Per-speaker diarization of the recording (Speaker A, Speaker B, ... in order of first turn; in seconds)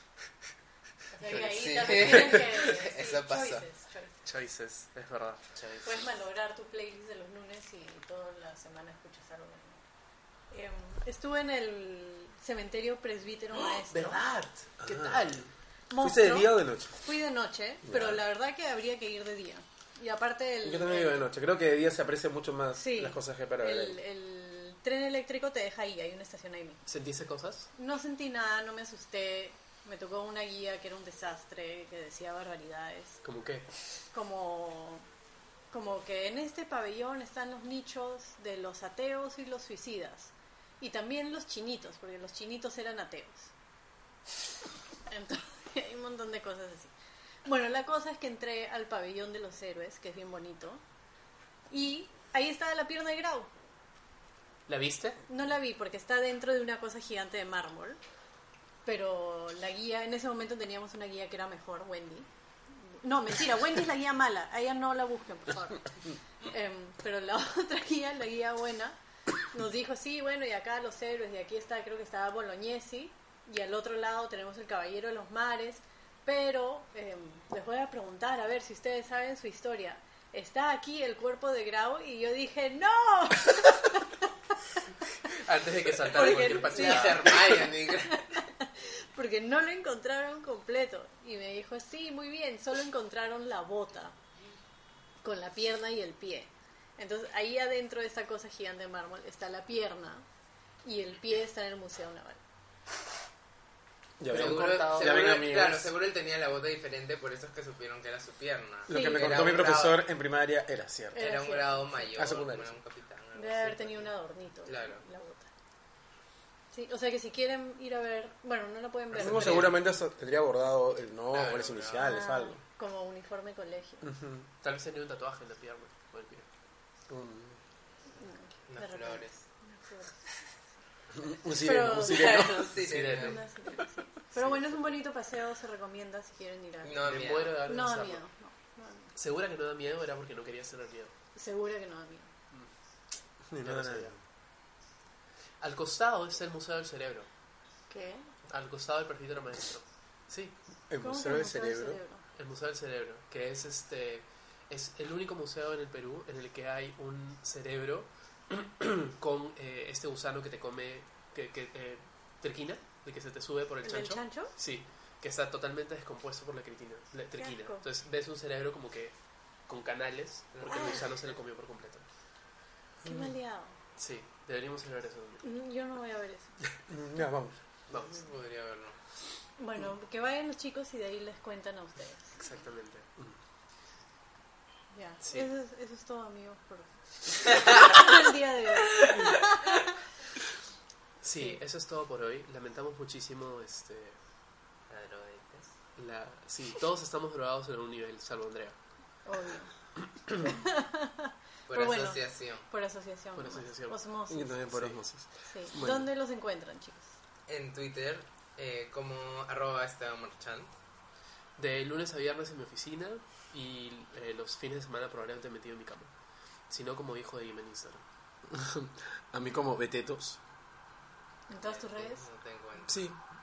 Speaker A: 1.1-4.2, 5.8-9.8, 10.5-14.2, 15.9-21.3, 22.8-26.8, 27.8-33.2, 34.1-35.1, 35.7-43.5, 45.1-46.9, 47.5-50.8, 51.7-53.5, 55.3-58.0, 58.9-62.3, 62.8-69.0, 69.5-84.3, 86.1-94.2, 95.2-100.2, 100.8-102.4, 108.9-109.3, 111.1-111.9, 113.3-115.5, 116.7-119.8, 122.0-124.1, 128.2-130.3, 131.4-132.7, 133.2-137.1, 137.7-139.1, 141.4-142.3, 147.9-148.3, 151.0-152.2, 163.8-164.5, 167.3-167.8, 170.7-171.1, 173.1-173.8, 175.4-176.6, 179.6-182.3, 184.9-189.9, 191.3-191.6, 199.2-199.7, 200.3-204.6, 205.5-207.1, 221.5-222.3
Speaker B: 1.3-2.5, 4.2-5.8, 13.6-15.5, 26.9-27.7, 33.2-33.7, 54.7-55.2, 85.3-87.5, 104.3-105.6, 119.2-119.8, 124.6-126.5, 132.8-133.4, 134.4-134.8, 137.0-138.2, 139.2-141.1, 143.6-144.2, 145.6-147.3, 148.5-150.6, 152.4-169.1, 169.7-172.1, 174.0-175.4, 177.9-178.2, 182.4-183.2, 191.2-194.2, 196.0-198.8, 203.4-204.0, 204.7-205.0, 211.6-216.1, 216.7-218.0
Speaker C: 1.3-3.7, 86.1-88.3, 104.3-110.0, 111.2-114.1, 114.7-115.0, 121.3-122.1, 128.7-129.4, 132.0-133.4, 136.8-137.6, 170.6-171.2, 177.9-179.0, 194.9-195.7, 201.7-202.7, 207.5-210.7, 221.6-223.0
Speaker D: 14.8-15.3, 16.0-17.0, 17.8-18.2, 20.6-24.0, 104.2-105.9, 108.9-111.4, 112.1-112.8, 119.2-122.6, 124.0-124.5, 127.1-127.6, 131.1-132.8, 143.5-144.2, 150.9-152.0, 173.0-173.3, 176.9-177.6, 204.3-206.1, 218.5-220.4, 222.9-223.2